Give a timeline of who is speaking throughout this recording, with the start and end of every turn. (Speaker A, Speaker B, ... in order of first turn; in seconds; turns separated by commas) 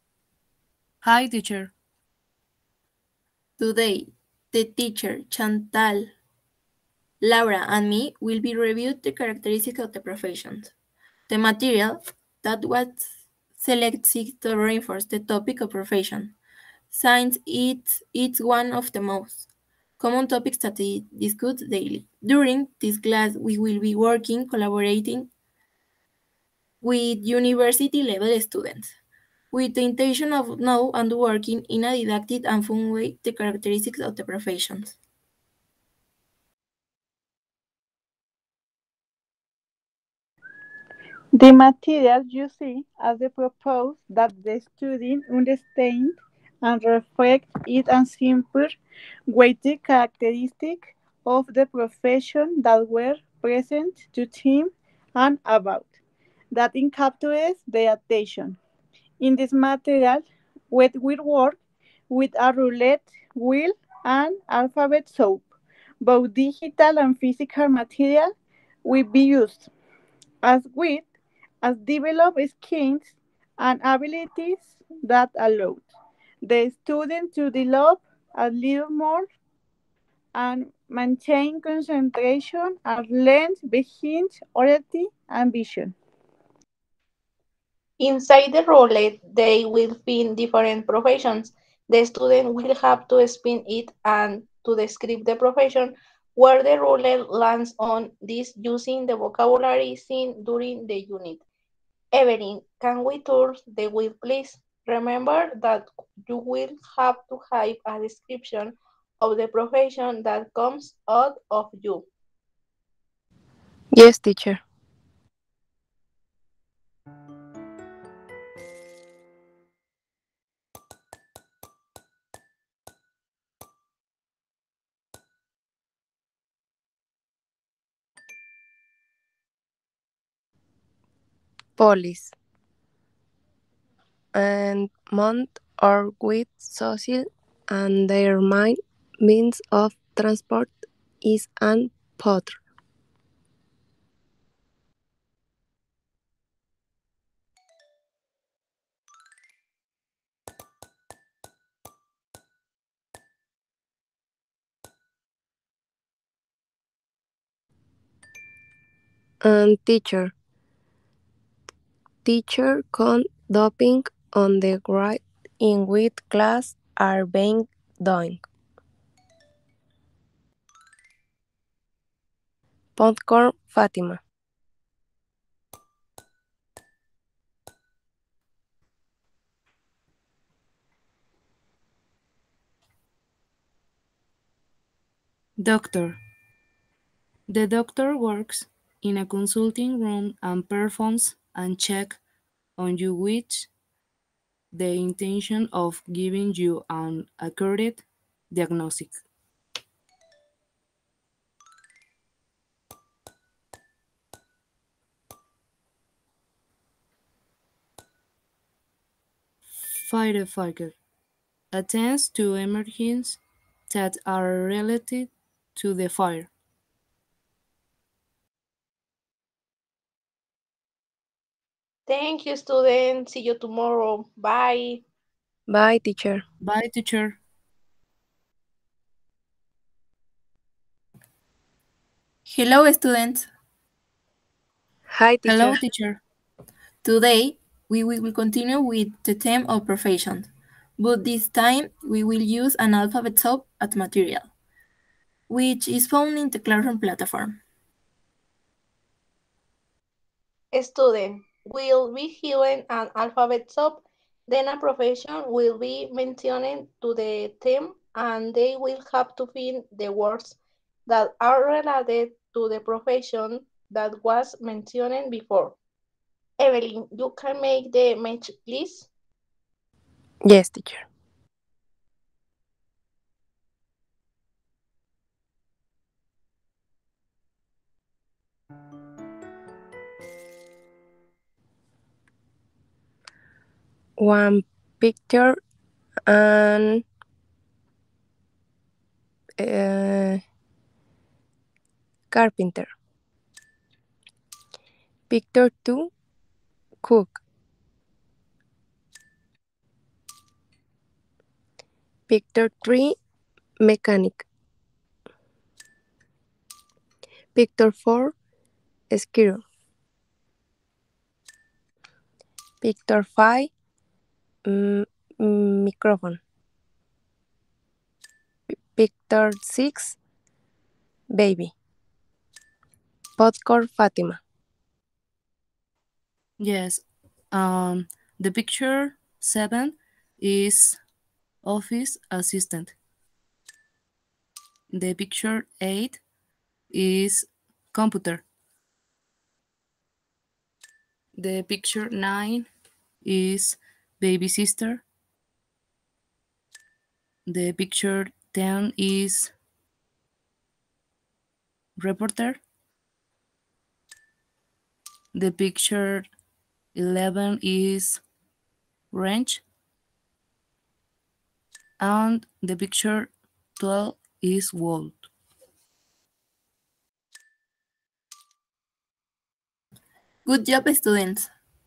Speaker A: 1.0-1.7, Speaker B: 3.6-6.1, Speaker B: 7.2-10.7, Speaker B: 11.3-16.4, Speaker B: 16.9-19.5, Speaker B: 20.0-25.3, Speaker B: 26.8-28.9, Speaker B: 29.5-35.0, Speaker C: 41.3-48.7, Speaker C: 49.3-55.9, Speaker C: 56.5-58.6, Speaker C: 59.2-61.6, Speaker C: 62.1-68.3, Speaker C: 68.8-69.7, Speaker C: 70.4-71.0, Speaker C: 71.6-75.8, Speaker C: 76.4-79.2, Speaker C: 80.3-85.9, Speaker D: 88.0-101.4, Speaker D: 102.1-112.1, Speaker E: 113.9-114.6, Speaker E: 131.8-132.3, Speaker E: 134.3-142.6, Speaker E: 159.4-160.3, Speaker E: 162.2-168.4, Speaker E: 173.0-174.2, Speaker A: 185.6-186.2, Speaker A: 187.5-192.2, Speaker A: 192.8-193.7, Speaker A: 194.7-199.2, Speaker A: 209.8-211.0, Speaker A: 211.7-216.5, Speaker D: 222.1-225.0, Speaker E: 225.7-226.4, Speaker A: 226.6-227.4, Speaker B: 232.4-233.5, Speaker E: 235.1-235.8, Speaker A: 235.4-236.2, Speaker B: 237.0-244.5, Speaker B: 245.5-247.6, Speaker D: 250.7-265.8, Speaker D: 266.6-269.1, Speaker E: 270.4-271.1, Speaker E: 284.2-285.6, Speaker E: 286.3-287.0, Speaker E: 289.6-290.4, Speaker E: 292.3-292.9, Speaker E: 295.3-296.1, Speaker E: 297.0-297.4, Speaker E: 302.3-303.1, Speaker E: 303.8-304.4, Speaker E: 307.5-308.3, Speaker E: 309.1-309.6, Speaker E: 312.8-313.7, Speaker E: 314.6-316.4, Speaker E: 318.9-320.2, Speaker E: 321.3-321.7, Speaker E: 323.4-324.4, Speaker A: 326.6-331.0, Speaker A: 331.6-332.9, Speaker A: 334.9-336.2, Speaker A: 336.9-338.4, Speaker A: 341.4-342.7, Speaker A: 343.2-345.0, Speaker A: 347.5-349.5, Speaker A: 352.0-352.6, Speaker A: 355.3-356.3, Speaker A: 356.9-358.2, Speaker A: 359.1-359.6, Speaker A: 362.0-365.3, Speaker B: 370.4-371.5